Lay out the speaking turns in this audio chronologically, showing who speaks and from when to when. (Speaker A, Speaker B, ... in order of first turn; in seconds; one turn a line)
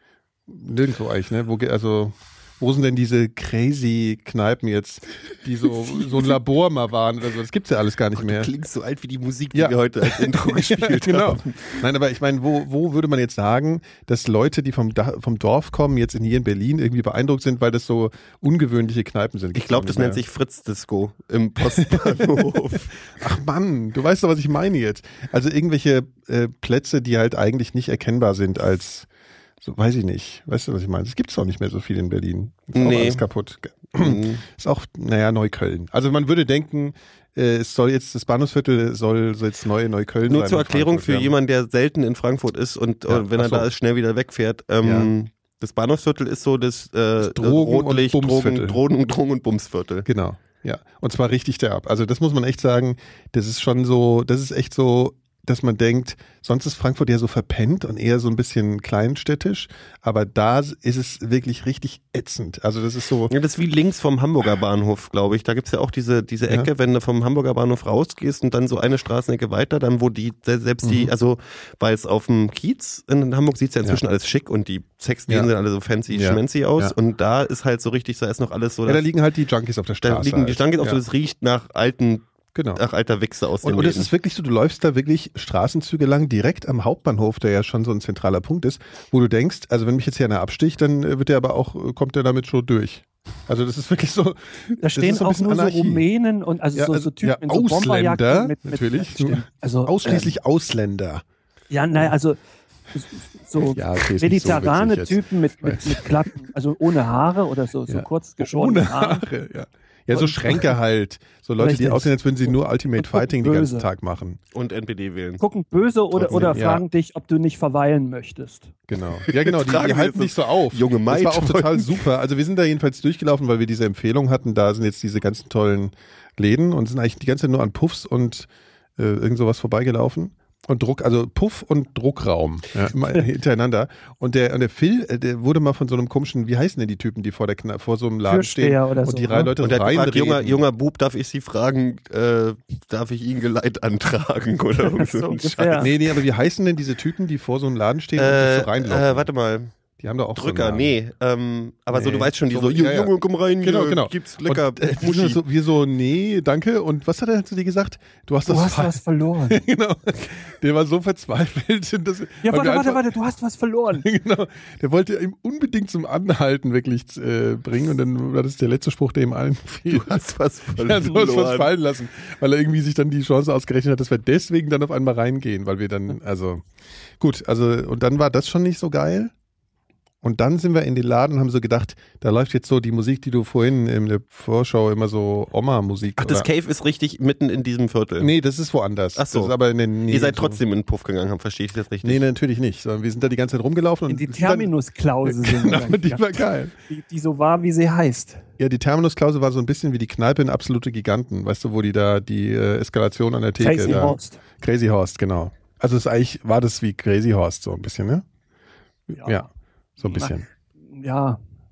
Speaker A: 0.5-8.5
Speaker B: 8.1-11.8
Speaker A: 9.5-20.2
Speaker B: 19.5-23.0
Speaker A: 21.6-29.1
Speaker A: 29.6-41.4
Speaker B: 32.7-33.2
Speaker B: 33.9-34.4
Speaker B: 40.2-50.0
Speaker A: 43.1-43.7
Speaker A: 44.8-45.1
Speaker A: 47.2-48.8
Speaker A: 50.0-63.3
Speaker B: 63.3-79.1
Speaker A: 70.8-71.1
Speaker A: 76.1-76.9
Speaker A: 78.8-81.0
Speaker B: 80.0-84.1
Speaker A: 82.5-82.8
Speaker A: 83.6-96.0
Speaker C: 94.8-100.3
Speaker A: 96.7-101.2
Speaker C: 101.7-102.4
Speaker C: 102.9-109.2
Speaker A: 103.7-106.0
Speaker A: 107.9-114.4
Speaker C: 110.1-110.7
Speaker C: 111.6-113.8
Speaker B: 114.5-115.4
Speaker C: 115.4-118.7
Speaker B: 116.1-116.6
Speaker A: 116.3-116.8
Speaker A: 118.9-140.6
Speaker B: 119.3-122.0
Speaker C: 138.2-139.5
Speaker B: 139.6-146.0
Speaker C: 144.8-145.9
Speaker A: 145.8-149.3
Speaker B: 148.2-149.7
Speaker A: 150.0-150.9
Speaker B: 150.3-155.4
Speaker A: 151.9-163.1
Speaker C: 158.4-159.6
Speaker C: 162.4-164.0
Speaker A: 164.0-170.2
Speaker B: 169.9-171.7
Speaker A: 170.7-176.6
Speaker A: 177.2-179.3
Speaker A: 180.2-186.5
Speaker B: 186.2-188.3
Speaker A: 188.2-190.6
Speaker B: 189.1-189.5
Speaker B: 190.1-192.2
Speaker A: 192.0-194.7
Speaker C: 194.1-198.4
Speaker A: 195.2-196.7
Speaker A: 198.6-208.2
Speaker C: 203.6-204.4
Speaker A: 209.1-210.4
Speaker C: 209.2-209.4
Speaker C: 210.0-211.4